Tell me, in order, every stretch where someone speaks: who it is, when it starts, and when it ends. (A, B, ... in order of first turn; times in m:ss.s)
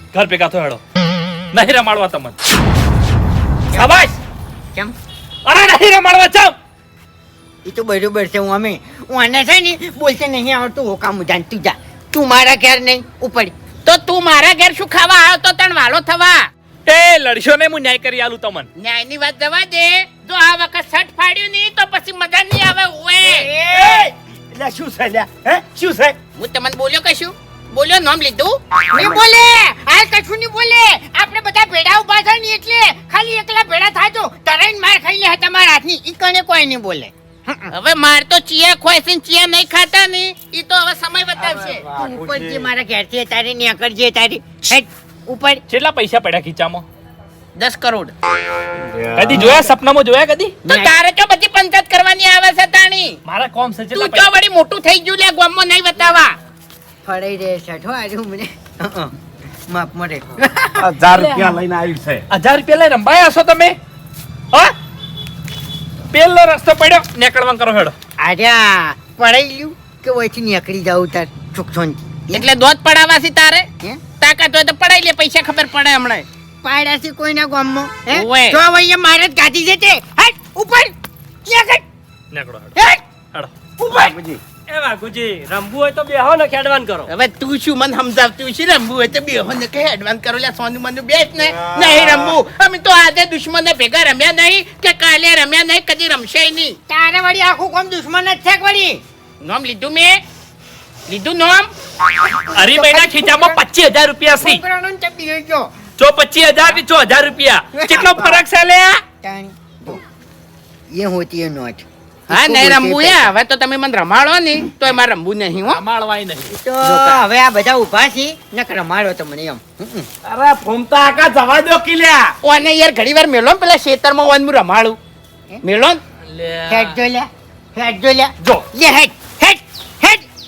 0:00.1-0:00.8 A
0:01.5-0:02.4 A
0:03.7-0:04.2 A
0:05.4-0:06.5 A
0:07.6-0:13.5 B
0:13.8-0:16.4 C
0:16.9-0:18.7 A
0:18.8-0:23.5 C
0:23.3-0:24.0 B
0:23.4-0:26.2 D
0:26.4-0:28.6 C
0:28.9-0:37.7 B
0:37.7-0:41.8 C
0:41.6-0:45.6 B
0:41.8-0:42.6 E
0:45.7-0:46.8 A
0:47.6-0:48.1 C
0:48.8-0:49.7 E
0:49.1-0:50.6 A
0:50.6-0:50.9 B
0:50.6-0:53.2 C
0:53.2-0:54.3 A
0:53.9-0:56.4 C
0:57.0-0:59.1 B
0:59.7-1:00.8 B
1:00.8-1:02.2 E
1:01.1-1:01.5 A
1:02.3-1:03.8 A
1:06.1-1:07.9 A
1:08.2-1:12.5 B
1:12.3-1:13.7 C
1:14.2-1:16.2 C
1:16.6-1:20.9 B
1:18.1-1:18.6 C
1:21.4-1:21.8 B
1:22.3-1:22.7 A
1:22.8-1:23.0 B
1:23.8-1:24.4 E
1:24.7-1:27.1 F
1:27.1-1:36.8 C
1:31.4-1:32.4 E
1:36.9-1:39.0 B
1:39.4-1:40.2 C
1:41.1-1:41.7 C
1:42.3-1:43.6 B
1:42.5-1:44.6 A
1:44.4-1:45.7 B
1:46.0-1:49.0 A
1:47.7-1:48.4 B
1:49.2-1:50.0 B
1:50.9-1:53.3 B
1:52.3-1:55.8 C
1:55.7-1:56.5 A
1:56.5-2:00.1 B
1:56.8-1:57.2 C
2:00.2-2:02.3 E
2:02.4-2:05.0 C
2:05.6-2:06.0 C
2:06.3-2:06.9 A
2:06.7-2:10.2 B